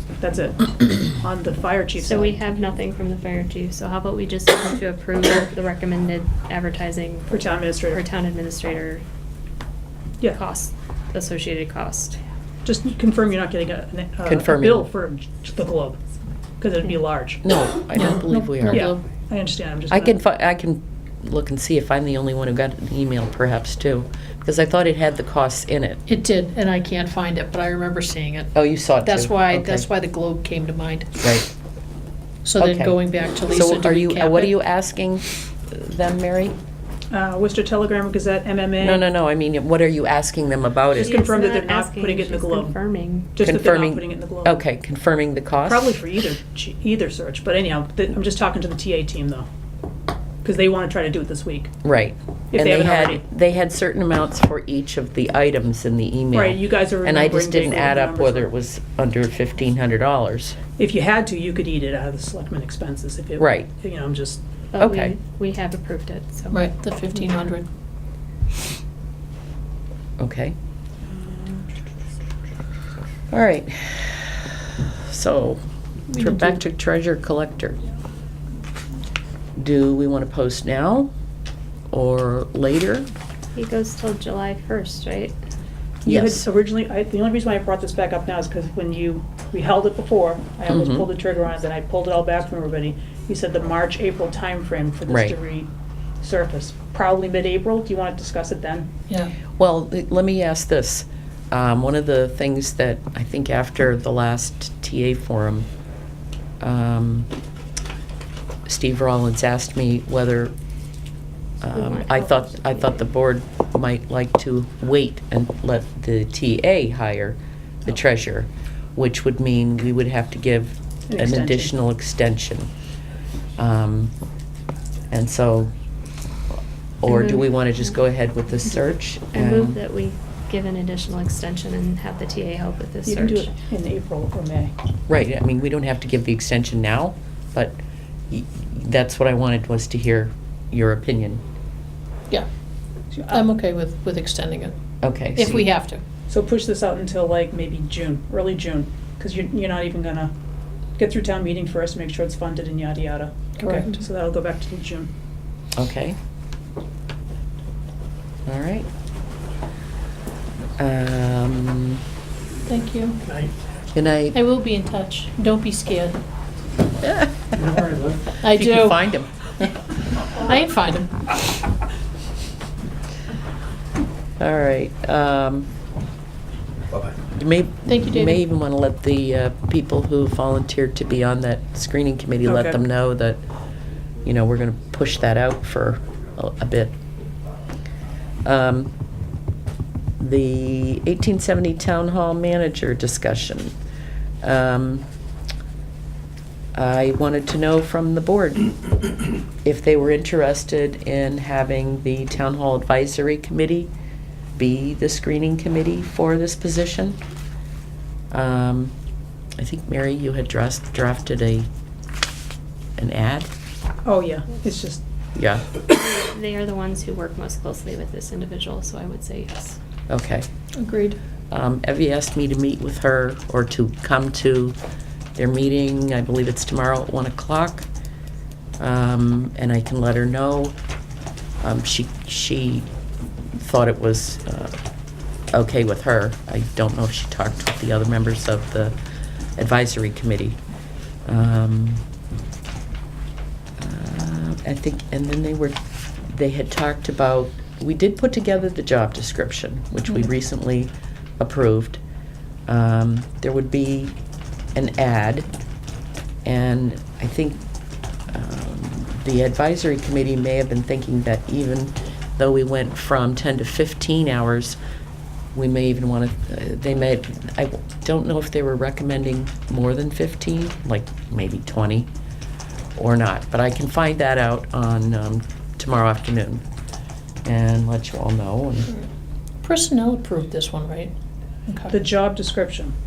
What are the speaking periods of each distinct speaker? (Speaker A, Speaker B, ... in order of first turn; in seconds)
Speaker A: 0.2-2.4, 7.3-8.0, 12.7-16.0, 16.6-17.4, 18.7-20.2, 37.1-39.0, 41.0-42.8, 43.4-44.6, 45.6-49.5, 50.4-51.7, 52.5-53.2, 56.3-58.5, 60.8-64.4, 71.1-71.7, 86.0-95.7, 96.2-98.9, 121.1-121.7, 133.1-134.7, 143.1-143.4, 146.3-150.3, 151.0-155.1, 163.3-163.5, 182.4-182.8, 214.1-215.0, 281.9-282.9
Speaker B: 2.0-9.0, 10.3-12.2, 40.9-43.3, 64.7-66.6, 83.5-85.4, 111.7-113.0, 127.1-127.7, 129.3-133.5, 215.9-219.8
Speaker C: 14.3-14.9, 17.4-18.9, 19.9-26.0, 28.5-29.9, 31.2-31.5, 32.6-36.6, 38.8-41.2, 43.4-46.0, 51.8-60.6, 63.4-63.7, 64.8-65.2, 70.2-70.5, 73.3-77.8, 79.6-81.1, 81.9-83.1, 86.1-86.5, 90.7-91.1, 95.1-95.4, 99.6-105.7, 106.6-107.3, 108.7-110.5, 111.6-122.7, 123.6-124.1, 125.1-125.7, 127.0-129.8, 135.1-141.4, 145.0-145.7, 155.8-156.2, 158.5-158.9, 160.8-162.0, 163.9-164.4, 167.0-169.5, 174.4-175.7, 177.4-183.4, 184.2-186.9, 188.4-188.9, 190.2-193.7, 194.4-195.1, 196.8-198.8, 199.6-203.9, 204.6-207.2, 208.3-208.9, 209.6-211.7, 213.0-213.5, 215.3-215.7, 220.1-220.5, 221.5-224.8, 225.4-227.9, 228.8-230.8, 231.6-232.9, 233.6-234.8, 235.5-238.9, 239.6-240.6, 241.3-242.0, 243.8-252.0, 252.7-254.2, 254.8-255.5, 256.4-257.6, 258.3-264.8, 265.6-272.1, 272.9-276.6, 277.4-278.9
Speaker D: 17.9-19.1, 26.1-31.3, 32.4-34.5, 66.5-67.7, 76.1-76.6, 143.3-144.8, 145.3-146.0, 153.6-153.9, 162.7-163.3, 164.3-166.2, 168.4-169.0, 170.3-171.3, 177.9-178.4, 220.8-221.2, 279.6-281.1, 281.7-281.9